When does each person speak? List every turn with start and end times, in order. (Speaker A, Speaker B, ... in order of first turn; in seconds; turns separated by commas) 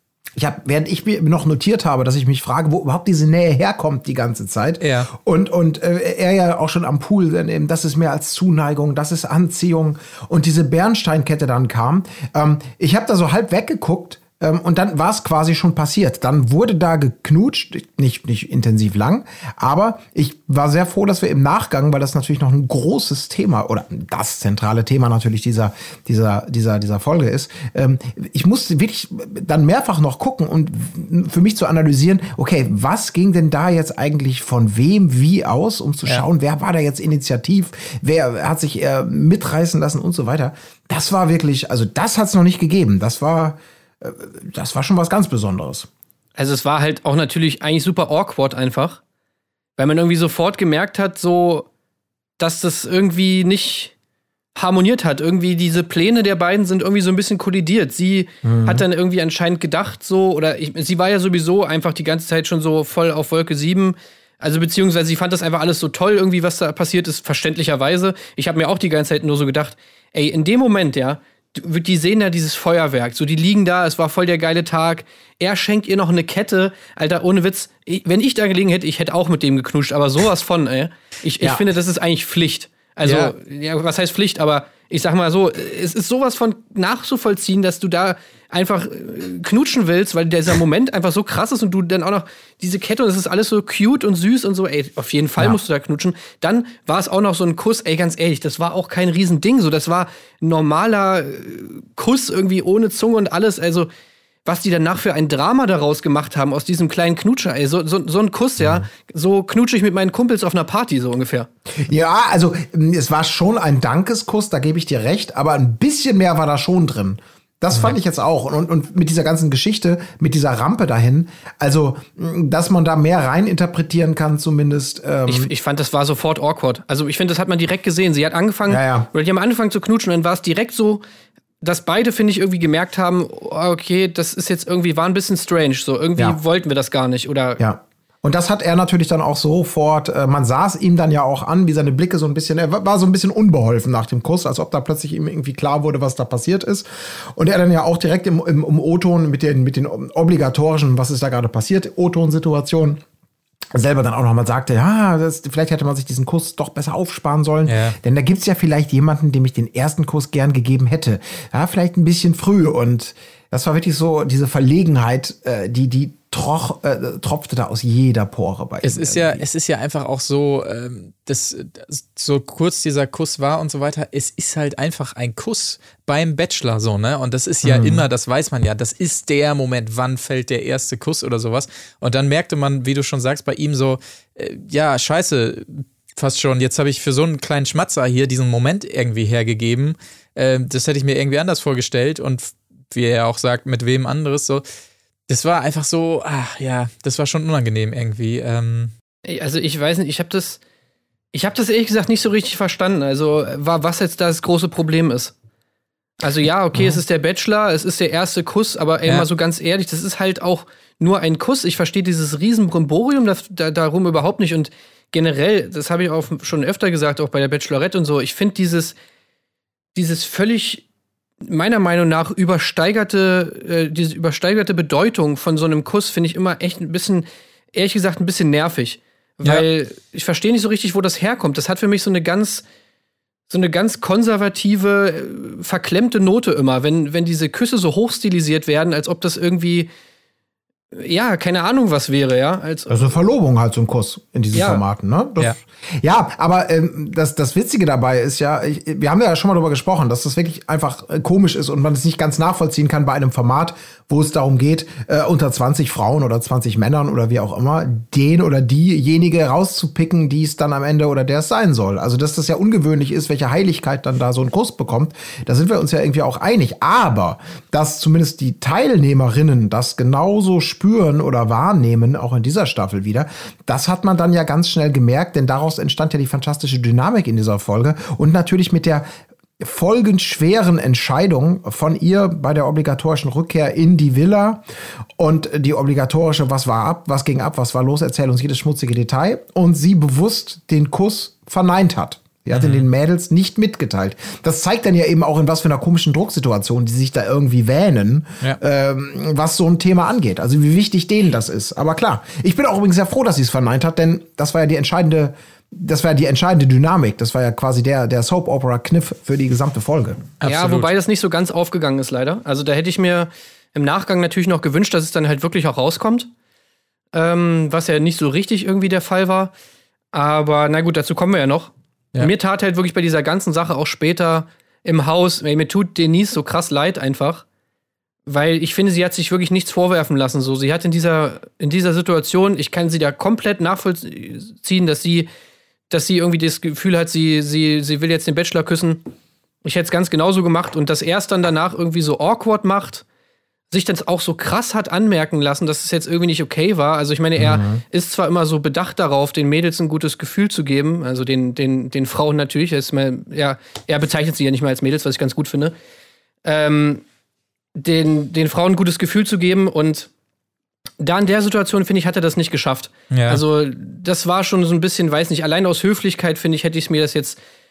Speaker A: 0.4-45.9, Speaker B: 4.8-5.1, Speaker C: 46.4-49.0, Speaker C: 49.8-51.7, Speaker C: 52.4-53.9, Speaker C: 54.5-103.9, Speaker A: 58.4-58.8, Speaker B: 83.0-83.3, Speaker C: 104.5-111.5, Speaker A: 111.8-125.5, Speaker C: 125.3-131.0, Speaker A: 128.7-129.1, Speaker C: 131.6-137.6, Speaker A: 137.6-153.0, Speaker A: 153.7-169.4, Speaker B: 157.7-158.0, Speaker B: 168.8-194.7, Speaker A: 177.6-178.1, Speaker B: 195.3-198.9, Speaker C: 199.2-200.6, Speaker C: 201.3-205.3, Speaker C: 206.2-219.0, Speaker C: 219.9-220.8, Speaker C: 221.4-232.6, Speaker C: 233.5-239.9, Speaker C: 240.9-243.0, Speaker A: 242.9-279.1, Speaker C: 244.5-244.8, Speaker A: 279.6-284.6, Speaker A: 285.2-310.2, Speaker B: 292.5-292.9, Speaker B: 310.4-310.9, Speaker C: 310.4-316.3, Speaker C: 317.1-319.5, Speaker C: 320.1-327.4, Speaker C: 328.3-335.3, Speaker C: 335.9-339.0, Speaker C: 339.6-343.0, Speaker C: 343.7-355.8, Speaker A: 347.4-347.8, Speaker C: 356.4-357.0, Speaker C: 357.8-360.1, Speaker C: 361.0-367.4, Speaker B: 363.1-363.4